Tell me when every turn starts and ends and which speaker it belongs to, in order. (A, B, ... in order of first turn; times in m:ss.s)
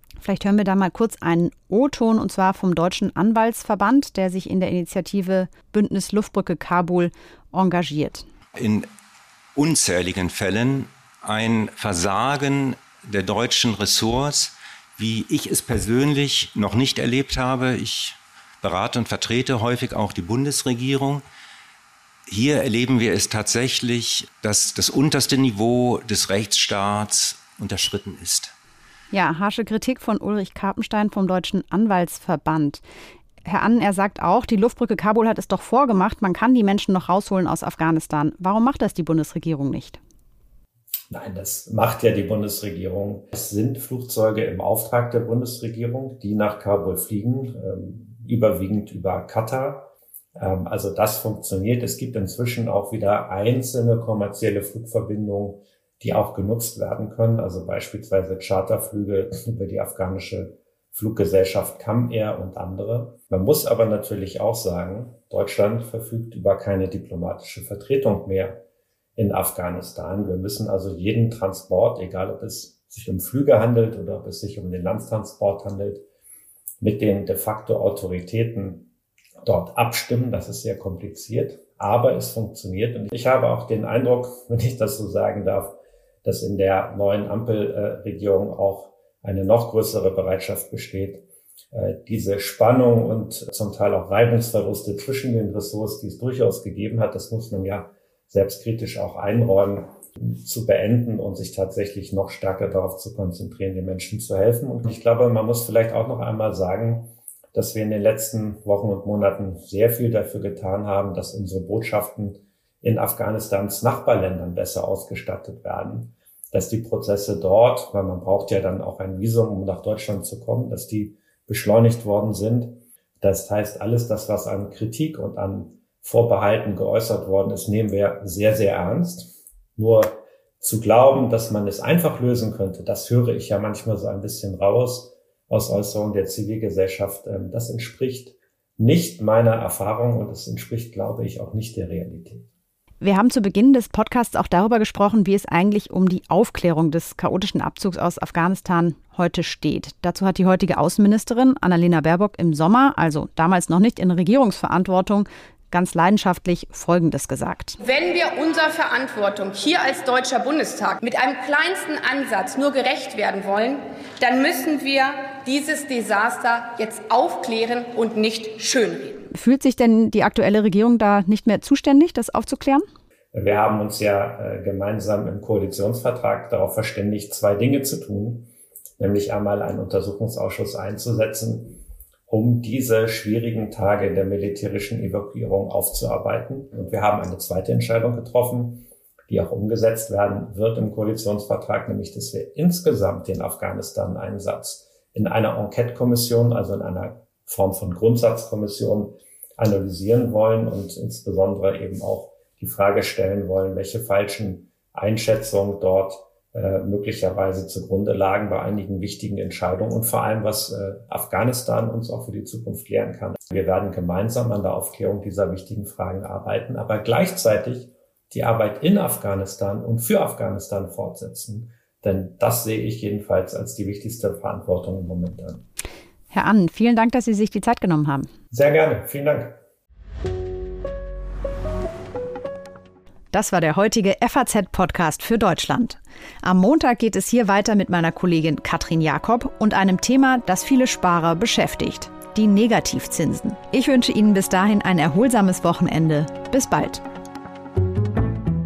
0:00.2-0:08.3 A
0:08.6-0:08.9 B
0:09.6-0:21.2 B
0:22.3-0:28.5 B
0:29.1-0:32.8 A
0:33.4-0:40.0 A
0:41.1-1:08.6 C
1:09.2-1:16.0 C
1:16.8-1:18.9 C
1:19.4-2:22.5 C
2:23.0-2:37.8 A
2:37.8-2:49.2 D
2:49.3-2:52.8 A
2:53.3-3:45.6 C
3:46.3-3:48.3 A
3:48.5-3:49.6 C
3:53.3-4:07.0 A